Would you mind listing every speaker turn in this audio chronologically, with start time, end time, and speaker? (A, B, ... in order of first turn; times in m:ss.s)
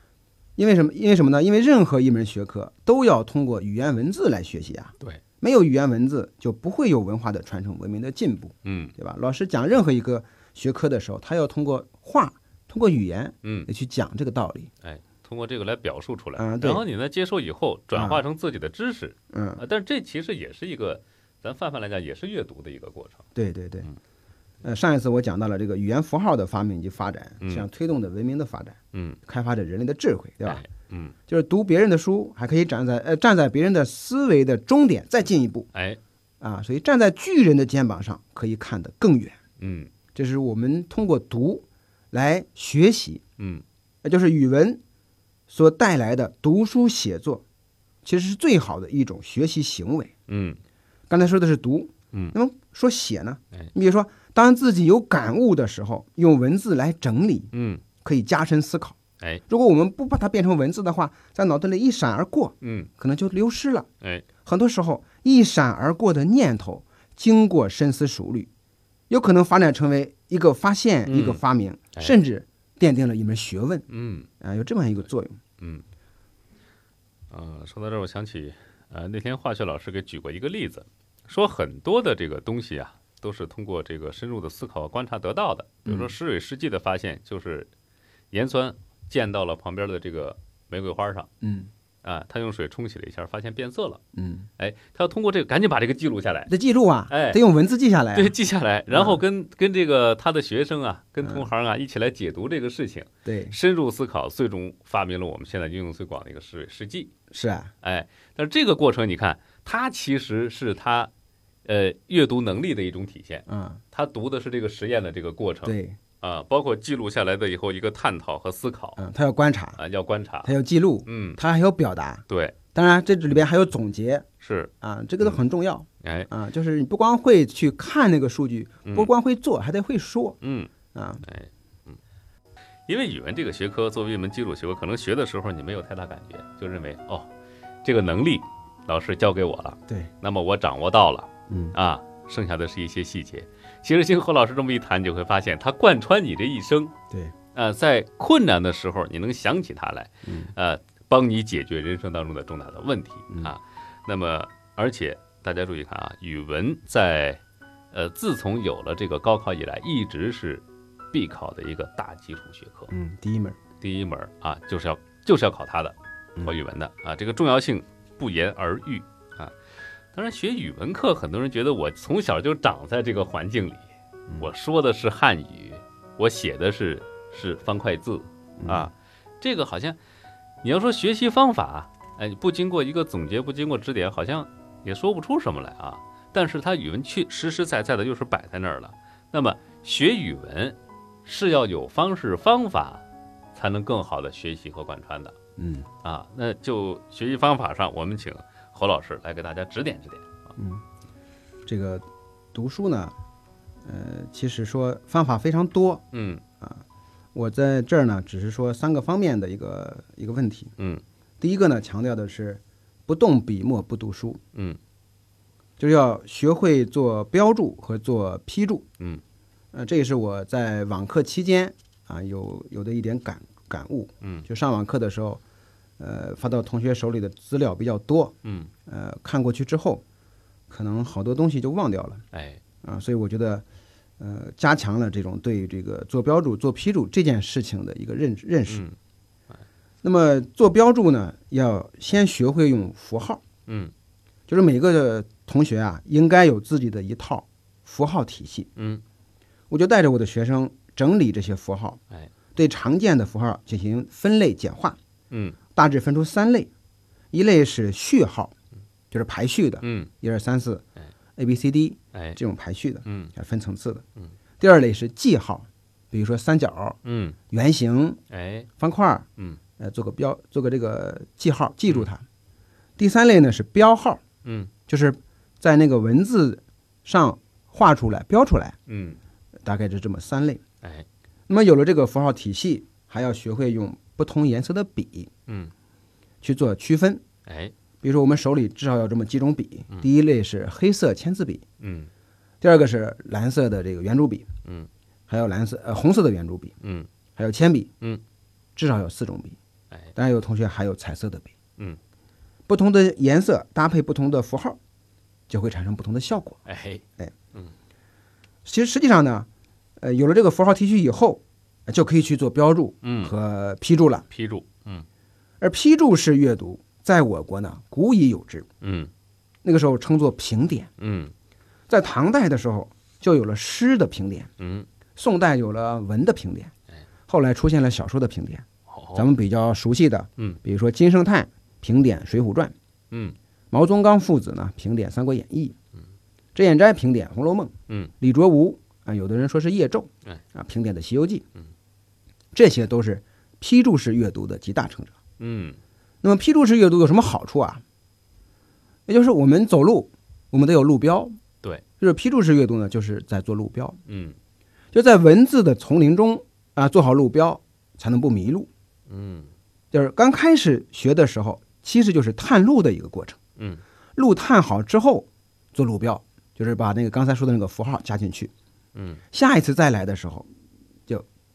0:00.6-0:14.7 A
0:08.6-0:08.9 B
0:13.4-0:13.7 B
0:14.8-0:23.2 B
0:16.4-0:16.8 A
0:18.0-0:18.2 A
0:19.3-0:19.6 A
0:23.4-0:23.9 A
0:24.6-0:30.6 A
0:28.9-0:29.2 B
0:30.4-0:31.2 B
0:31.3-0:35.7 A
0:35.7-0:36.0 B
0:36.4-0:39.4 A
0:39.6-0:39.9 B
0:40.2-0:43.2 A
0:43.4-0:43.6 B
0:44.0-0:44.8 A
0:45.5-0:47.4 A
0:48.0-0:50.1 A
0:50.3-0:50.6 B
0:51.1-0:57.5 A
0:57.5-0:57.8 B
0:58.0-0:59.0 A
0:59.5-1:03.9 A
1:02.6-1:02.9 B
1:04.4-1:08.5 A
1:09.1-1:13.9 A
1:11.1-1:11.4 B
1:13.9-1:14.3 B
1:14.4-1:15.4 A
1:15.6-1:15.8 B
1:17.3-1:27.7 B
1:25.9-1:26.1 A
1:28.3-1:31.3 B
1:31.4-1:31.7 A
1:32.0-1:34.0 B
1:34.2-1:34.5 A
1:34.6-1:36.5 B
1:36.5-1:38.3 A
1:37.1-1:37.4 B
1:38.2-1:47.1 B
1:38.9-1:39.2 A
1:43.2-1:43.6 A
1:47.3-1:47.7 A
1:47.8-1:51.1 B
1:51.6-1:59.0 B
1:53.5-1:53.8 A
1:55.7-1:56.0 A
1:59.0-1:59.8 A
1:59.8-2:00.5 B
2:00.4-2:04.3 A
2:01.1-2:01.4 B
2:02.3-2:02.6 B
2:04.4-2:04.7 B
2:04.8-2:10.4 A
2:06.0-2:06.3 B
2:08.9-2:09.1 B
2:10.4-2:10.7 B
2:10.9-2:11.2 A
2:11.2-2:12.0 B
2:12.9-2:17.3 B
2:17.8-2:26.9 B
2:21.5-2:21.8 A
2:27.6-2:37.4 B
2:30.2-2:30.5 A
2:37.9-2:42.9 B
2:42.9-2:43.6 A
2:43.8-2:49.6 B
2:50.1-2:53.9 B
2:54.4-3:00.0 B
2:58.6-2:58.9 A
3:00.6-3:13.0 B
3:13.6-3:15.4 B
3:15.6-3:15.9 A
3:16.0-3:20.5 B
3:20.6-3:20.8 A
3:21.7-3:23.1 A
3:23.8-3:26.0 A
3:26.1-3:26.4 B
3:27.4-3:30.7 A
3:30.8-3:31.0 B
3:31.4-3:34.4 A
3:34.5-3:34.8 B
3:35.8-3:38.9 A
3:39.7-3:45.4 A
3:46.0-3:48.4 A
3:48.4-3:48.7 B
3:48.9-3:50.0 A
3:50.7-3:52.2 A
3:52.3-3:52.6 B
3:52.8-3:53.6 A
3:54.2-3:58.8 A
3:58.7-3:59.0 B
4:00.0-4:03.4 A
4:03.7-4:03.9 B
4:04.5-4:08.7 A
4:08.8-4:09.0 B
4:09.7-4:12.0 A
4:12.6-4:15.0 A
4:15.3-4:15.6 B
4:15.8-4:16.7 A
4:17.3-4:18.5 A
4:19.1-4:20.8 A
4:19.8-4:20.1 B
4:21.4-4:24.0 A
4:23.0-4:23.3 B
4:24.6-4:27.0 A
4:27.0-4:27.4 B
4:27.5-4:28.2 A
4:28.3-4:28.7 B
4:28.8-4:29.3 A
4:29.8-4:32.2 A
4:33.0-4:34.2 A
4:34.4-4:34.7 B
4:34.9-4:38.8 A
4:38.9-4:39.2 B
4:39.6-4:40.6 A
4:41.5-4:45.3 A
4:46.4-4:47.2 A
4:47.5-4:47.7 B
4:48.0-4:51.6 A
4:51.8-4:52.1 B
4:52.6-4:54.5 A
4:55.3-4:56.7 A
4:56.8-4:57.1 B
4:57.4-4:57.9 A
4:58.8-4:59.6 A
5:00.2-5:01.5 A
5:02.7-5:04.8 A
5:05.5-5:06.6 A
5:06.7-5:07.0 B
5:08.6-5:09.5 A
5:10.0-5:14.2 A
5:13.0-5:13.3 B
5:14.3-5:15.1 B
5:15.6-5:18.7 A
5:18.8-5:19.1 B
5:19.6-5:20.9 A
5:21.0-5:21.3 B
5:21.9-5:24.5 A
5:24.6-5:24.9 B
5:25.2-5:26.7 A
5:27.3-5:32.7 A
5:28.9-5:29.3 B
5:33.1-5:33.4 B
5:33.7-5:35.8 A
5:36.6-5:41.4 A
5:42.5-5:45.1 A
5:45.4-5:45.8 B
5:46.2-5:47.8 A
5:49.1-5:51.3 A
5:52.0-5:54.0 A
5:54.1-5:54.4 B
5:54.9-5:58.7 A
5:59.1-5:59.5 B
5:59.9-6:03.4 A
6:04.2-6:08.5 A
6:09.0-6:09.2 B
6:09.3-6:10.5 A